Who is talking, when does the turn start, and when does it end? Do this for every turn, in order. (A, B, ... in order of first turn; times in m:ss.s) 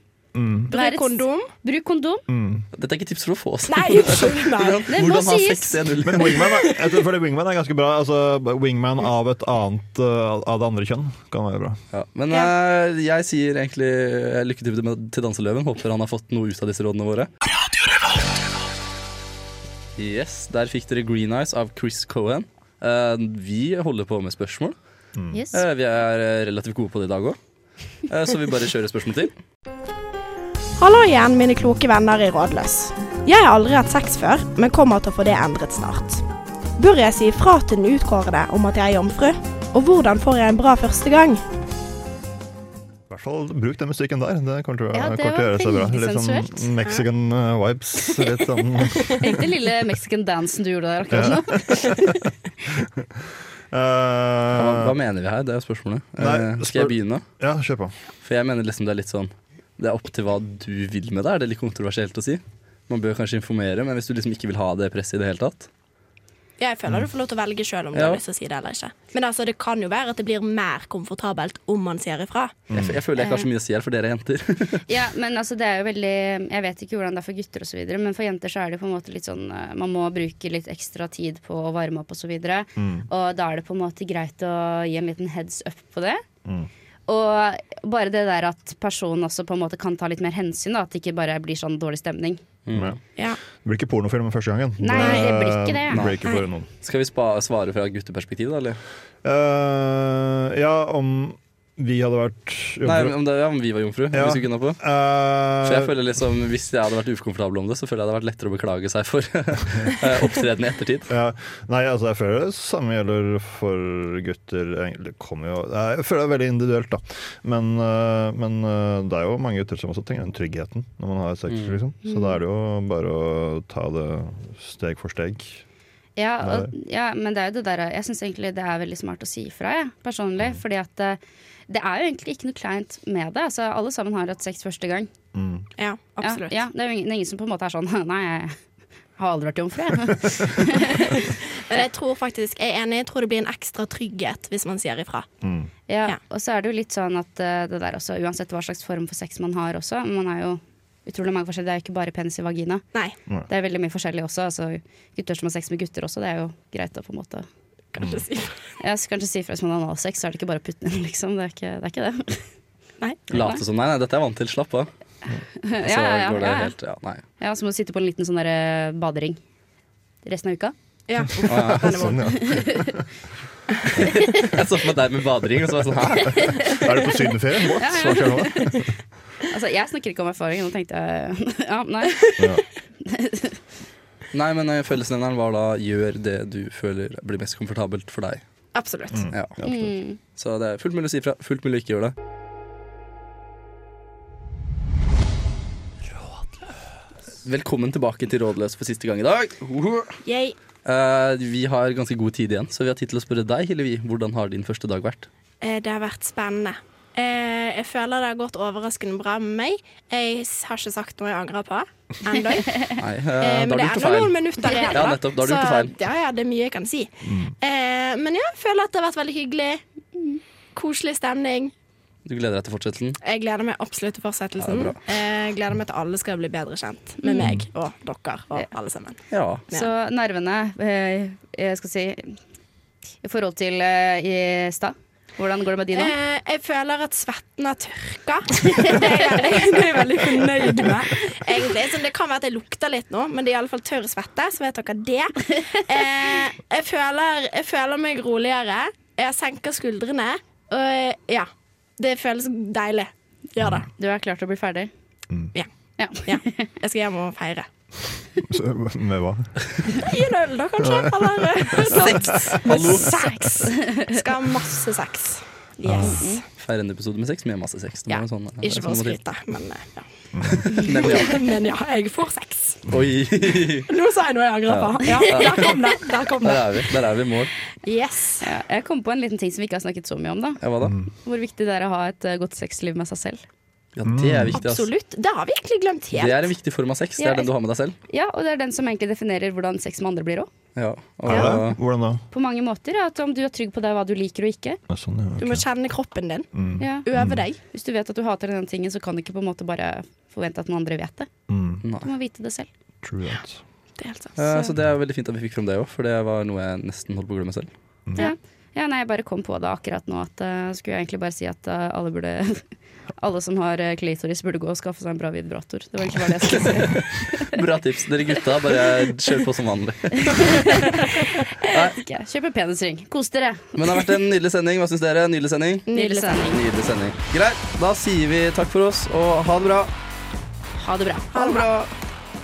0:00.3-0:00.7 A
0:00.7-0:01.5 B
0:00.7-0:02.2 C
0:02.3-0:02.6 A
0:02.7-0:06.5 D
0:03.7-0:05.0 B
0:04.9-0:05.8 C
0:06.0-0:11.8 A
0:06.4-0:06.9 B
0:11.9-0:17.3 D
0:20.0-0:24.7 D
0:25.3-0:25.6 C
0:25.5-0:27.4 D
0:28.1-0:29.3 D
0:30.8-0:36.2 B
0:36.8-0:41.4 B
0:43.1-0:49.2 A
0:44.9-0:46.7 C
0:48.9-0:49.3 B
0:49.2-0:52.2 C
0:51.1-0:52.2 A
0:52.7-0:54.9 A
0:54.5-0:57.2 D
0:56.2-0:57.9 A
0:58.2-1:05.7 D
1:06.6-1:12.6 B
1:07.9-1:08.2 D
1:12.7-1:13.0 A
1:12.7-1:14.8 D
1:13.2-1:13.5 C
1:14.9-1:26.2 C
1:22.8-1:23.1 A
1:27.1-1:32.4 C
1:32.6-1:33.0 D
1:32.7-1:33.0 A
1:33.6-1:36.6 A
1:34.8-1:36.0 C
1:34.9-1:35.2 B
1:35.9-1:36.2 D
1:36.8-1:38.8 D
1:39.2-1:43.2 A
1:42.8-1:44.8 D
1:44.1-1:45.9 A
1:45.6-1:51.1 D
1:51.1-2:05.6 A
2:01.5-2:01.8 D
2:02.0-2:02.4 C
2:06.2-2:15.1 C
2:06.4-2:06.7 A
2:15.3-2:15.7 A
2:15.8-2:16.6 B
2:16.2-2:18.6 C
2:19.2-2:21.4 C
2:21.7-2:25.3 B
2:25.4-2:25.7 A
2:25.9-2:32.8 C
2:33.5-2:37.5 C
2:37.9-2:38.5 B
2:38.8-2:42.5 C
2:43.0-2:43.3 B
2:43.3-2:44.9 D
2:43.3-2:43.6 C
2:45.6-2:46.7 C
2:45.8-2:47.2 D
2:47.4-2:49.4 C
2:50.2-2:50.7 C
2:51.1-2:52.3 B
2:51.5-2:52.2 D
2:51.6-2:53.0 A
2:52.2-2:53.0 C
2:54.1-2:54.4 C
2:54.3-2:56.5 D
2:56.4-2:57.0 C
2:56.5-2:58.9 A
2:57.8-2:58.9 C
2:59.5-3:03.6 C
3:02.4-3:02.6 A
3:04.3-3:08.4 D
3:08.7-3:09.3 B
3:09.1-3:09.9 A
3:09.3-3:09.6 D
3:09.6-3:10.2 C
3:10.3-3:12.1 D
3:17.4-3:20.2 D
3:20.2-3:20.6 B
3:20.8-3:25.3 D
3:25.6-3:39.8 B
3:33.0-3:35.9 D
3:37.2-3:37.5 A
3:40.7-3:41.7 B
3:42.2-3:43.2 D
3:43.2-3:49.9 B
3:44.6-3:45.0 D
3:47.2-3:47.5 C
3:49.3-3:49.6 D
3:49.7-3:52.4 C
3:53.2-3:56.1 C
3:55.9-4:13.9 B
3:58.7-3:59.0 C
4:14.0-4:14.9 C
4:16.0-4:16.7 C
4:16.2-4:17.7 B
4:18.5-4:19.6 A
4:20.0-4:26.4 B
4:20.8-4:22.8 A
4:21.9-4:23.2 D
4:22.8-4:24.2 C
4:25.8-4:26.2 A
4:26.0-4:26.4 C
4:26.6-4:29.2 D
4:28.1-4:32.8 B
4:30.3-4:30.7 A
4:30.7-4:31.4 D
4:32.9-4:33.9 D
4:33.9-4:37.0 B
4:34.7-4:35.8 D
4:36.4-4:37.5 D
4:37.8-4:38.5 B
4:38.4-4:40.6 C
4:40.6-4:41.0 D
4:40.8-4:41.1 A
4:41.2-4:43.4 C
4:43.9-4:44.9 D
4:44.0-4:44.6 A
4:44.5-4:46.5 B
4:46.1-4:48.0 D
4:47.2-4:47.5 C
4:48.1-4:50.5 C
4:50.8-4:51.8 D
4:51.2-4:52.2 A
4:52.3-4:54.8 C
4:54.9-4:55.6 A
4:55.4-4:56.5 B
4:56.5-4:57.4 A
4:56.8-5:01.3 C
4:57.0-4:57.6 B
5:01.5-5:01.8 A
5:02.0-5:02.7 C
5:03.0-5:03.6 A
5:04.0-5:04.7 B
5:04.4-5:07.7 D
5:08.2-5:12.6 C
5:13.2-5:17.6 C
5:16.6-5:21.0 D
5:20.2-5:24.1 C
5:21.6-5:22.0 D
5:23.8-5:25.9 D
5:25.9-5:26.4 B
5:25.9-5:26.6 C
5:26.4-5:29.9 D
5:30.8-5:31.9 C
5:31.3-5:31.7 B